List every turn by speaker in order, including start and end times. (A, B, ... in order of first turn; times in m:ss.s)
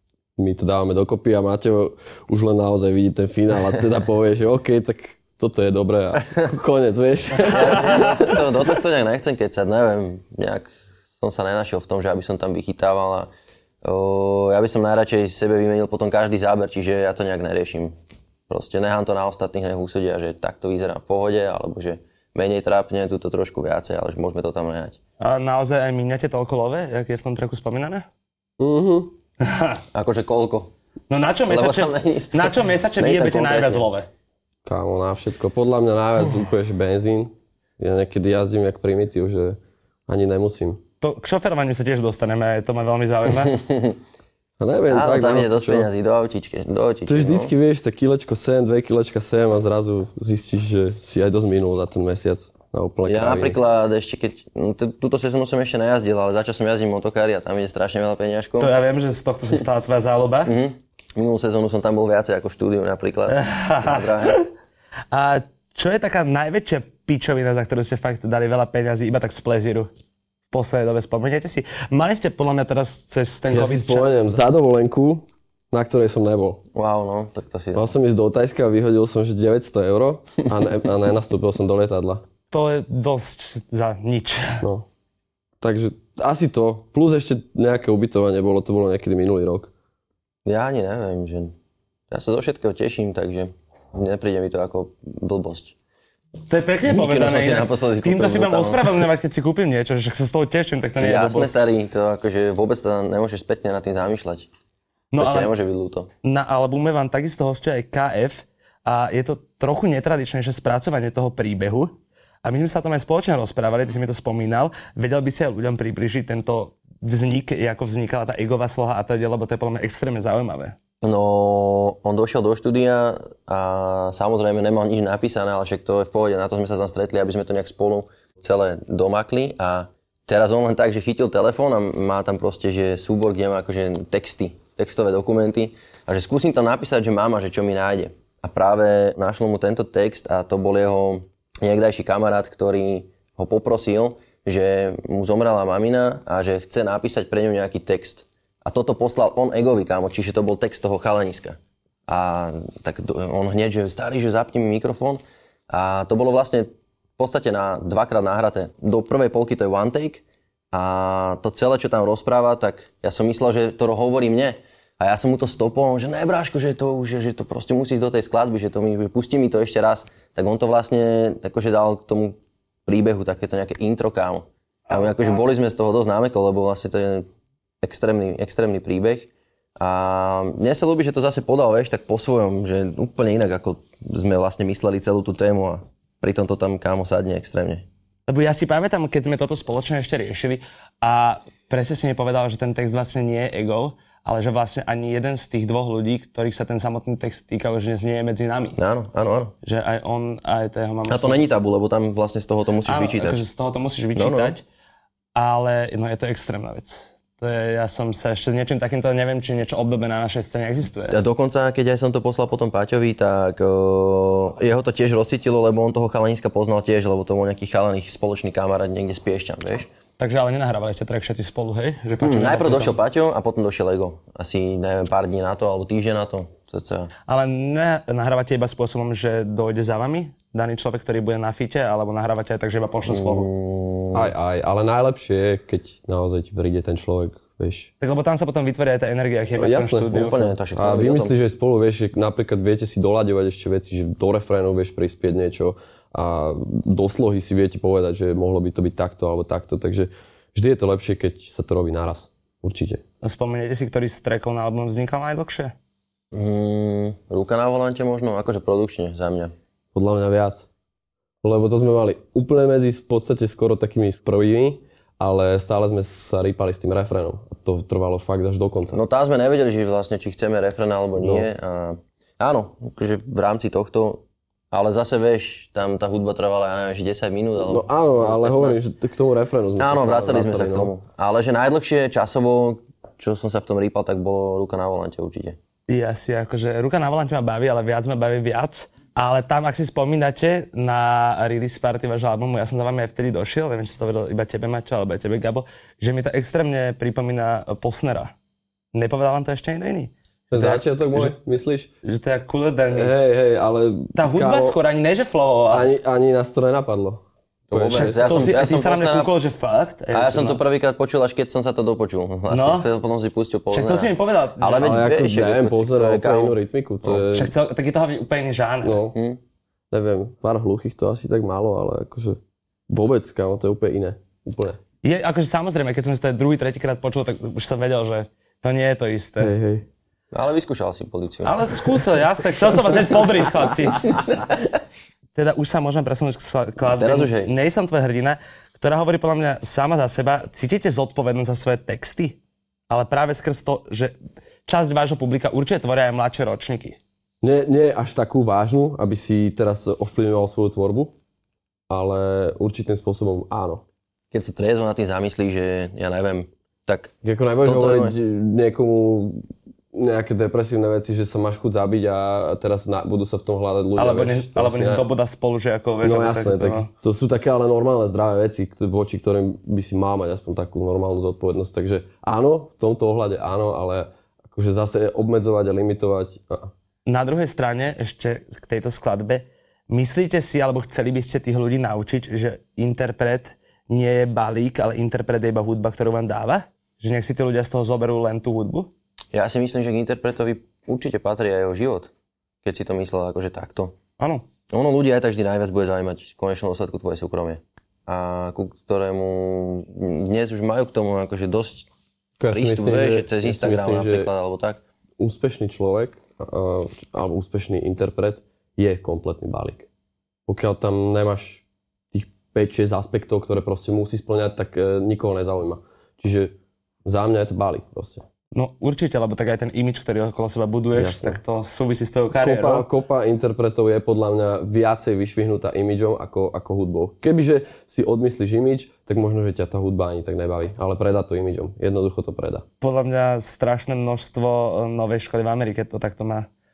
0:00.4-0:08.4 A
0:07.5-0:13.3 B
0:13.8-0:18.0 B
0:18.5-0:25.0 B
0:25.2-0:28.0 C
0:28.6-0:29.1 A
0:29.4-0:29.8 C
0:29.9-0:30.7 B
0:31.1-0:34.1 C
0:31.5-0:33.8 B
0:34.6-0:40.8 A
0:41.0-0:43.6 C
0:43.5-0:44.0 B
0:44.6-0:45.9 A
0:44.9-0:47.5 B
0:47.0-0:53.6 A
0:53.0-0:58.7 B
0:58.6-1:00.5 C
1:00.4-1:04.4 B
1:03.3-1:04.5 C
1:05.1-1:09.9 C
1:10.5-1:14.1 C
1:13.5-1:16.6 A
1:16.7-1:17.9 B
1:17.7-1:22.2 A
1:22.5-1:24.6 C
1:25.6-1:29.7 A
1:30.4-1:31.5 B
1:32.1-1:35.7 B
1:36.5-1:41.6 C
1:36.9-1:39.0 B
1:41.0-1:44.5 B
1:45.1-1:45.5 C
1:45.2-1:46.1 B
1:46.2-1:51.9 C
1:52.4-2:00.8 C
2:01.0-2:57.3 B
2:54.9-2:55.3 C
2:57.8-3:07.8 B
3:08.3-3:18.8 C
3:18.8-3:19.5 B
3:19.6-3:21.4 C
3:21.1-3:23.4 B
3:22.8-3:24.6 C
3:24.2-3:24.5 B
3:25.3-3:31.2 C
3:31.1-3:39.9 B
3:40.2-3:43.0 C
3:42.2-3:47.1 B
3:47.3-3:53.5 C
3:53.0-3:54.3 B
3:54.1-3:57.9 A
3:58.0-4:00.6 C
3:59.6-4:13.0 A
4:00.1-4:01.3 B
4:13.2-4:15.7 C
4:16.3-4:19.5 B
4:19.9-4:20.6 A
4:21.4-4:29.0 A
4:28.9-4:38.8 B
4:31.2-4:31.5 A
4:37.6-4:40.9 A
4:39.8-4:45.6 B
4:45.9-4:58.3 C
4:58.9-5:01.4 C
5:00.5-5:01.9 A
5:02.0-5:03.1 C
5:02.9-5:04.8 A
5:04.1-5:06.0 C
5:05.7-5:08.5 A
5:07.7-5:09.3 B
5:07.9-5:10.6 C
5:10.1-5:17.2 B
5:12.5-5:12.9 C
5:13.7-5:15.0 C
5:14.8-5:17.5 A
5:17.3-5:19.0 C
5:18.8-5:19.2 A
5:19.1-5:19.4 B
5:19.9-5:24.8 A
5:25.0-5:29.5 C
5:29.4-5:29.9 A
5:30.3-5:31.8 B
5:31.4-5:34.2 C
5:35.3-5:42.4 C
5:36.9-5:37.5 B
5:42.9-5:44.1 C
5:44.6-5:47.0 C
5:47.4-5:51.1 A
5:51.9-5:53.8 A
5:54.3-5:58.1 B
5:57.2-6:05.0 A
6:04.0-6:06.9 C
6:06.0-6:16.7 A
6:17.0-6:28.9 C
6:29.3-6:32.1 B
6:32.6-6:34.0 B
6:34.2-6:34.4 C
6:34.7-6:41.9 B
6:42.4-6:44.3 A
6:42.5-6:44.8 B
6:45.2-6:49.9 A
6:50.5-6:58.2 A
6:58.5-7:02.9 C
7:00.9-7:01.4 A
7:02.3-7:12.6 A
7:12.8-7:16.5 C